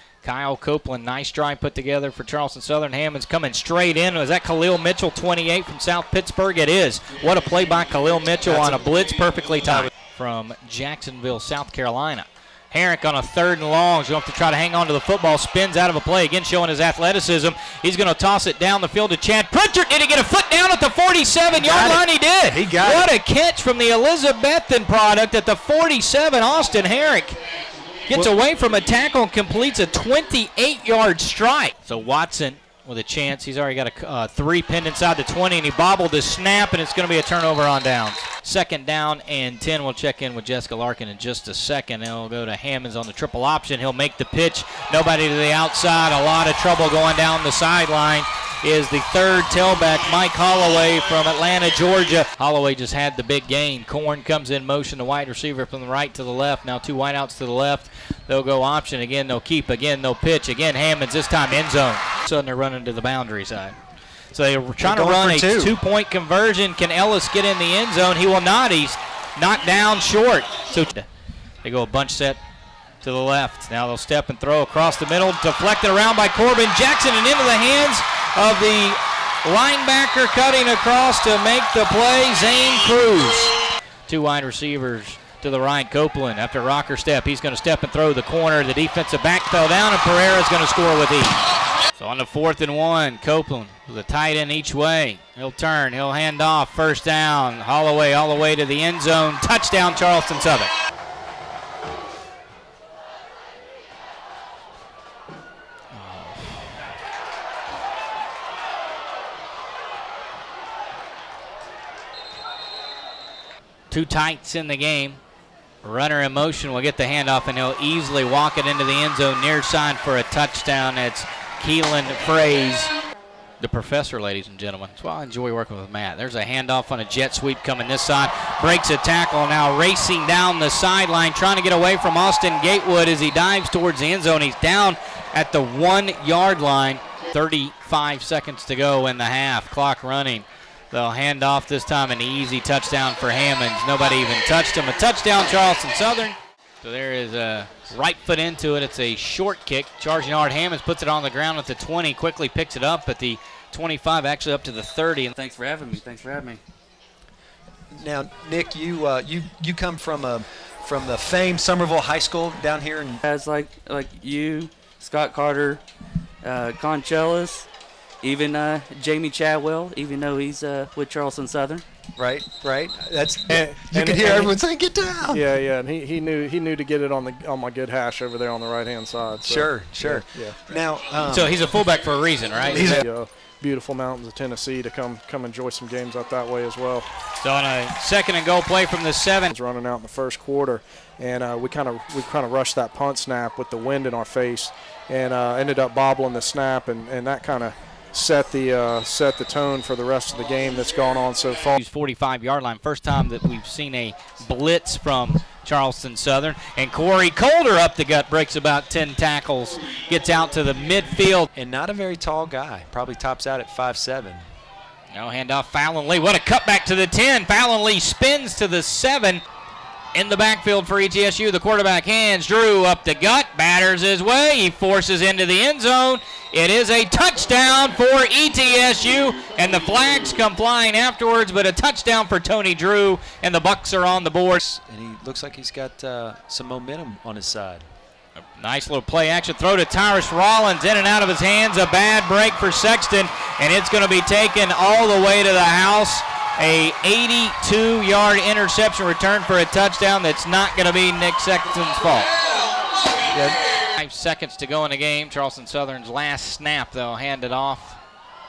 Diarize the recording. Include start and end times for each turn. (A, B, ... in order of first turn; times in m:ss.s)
0:00.2-0:27.4 A
0:08.5-0:08.8 B
0:21.6-0:23.1 B
0:28.1-1:03.8 A
1:04.3-1:11.0 A
1:04.8-1:05.8 B
1:11.6-1:12.4 A
1:13.0-1:23.6 A
1:24.1-1:31.4 A
1:32.0-1:40.7 A
1:45.9-1:46.6 A
1:53.9-1:55.2 A
1:55.8-2:02.9 A
2:03.6-2:35.3 A
2:35.4-2:36.6 C
2:37.9-2:43.2 B
2:43.2-2:45.8 C
2:46.4-2:47.7 C
2:48.2-2:51.8 C
2:52.2-2:55.4 B
2:53.5-2:54.5 D
2:55.3-3:00.8 D
2:59.4-3:01.6 B
3:01.2-3:03.0 A
3:02.7-3:03.0 B
3:02.8-3:07.0 D
3:07.4-3:09.5 A
3:09.5-3:21.8 D
3:21.8-3:31.5 A
3:31.5-3:34.4 B
3:35.1-3:39.4 A
3:40.1-3:54.6 A
3:54.6-3:57.8 B
3:58.6-4:12.3 A
4:13.3-4:13.6 B
4:14.0-4:18.0 A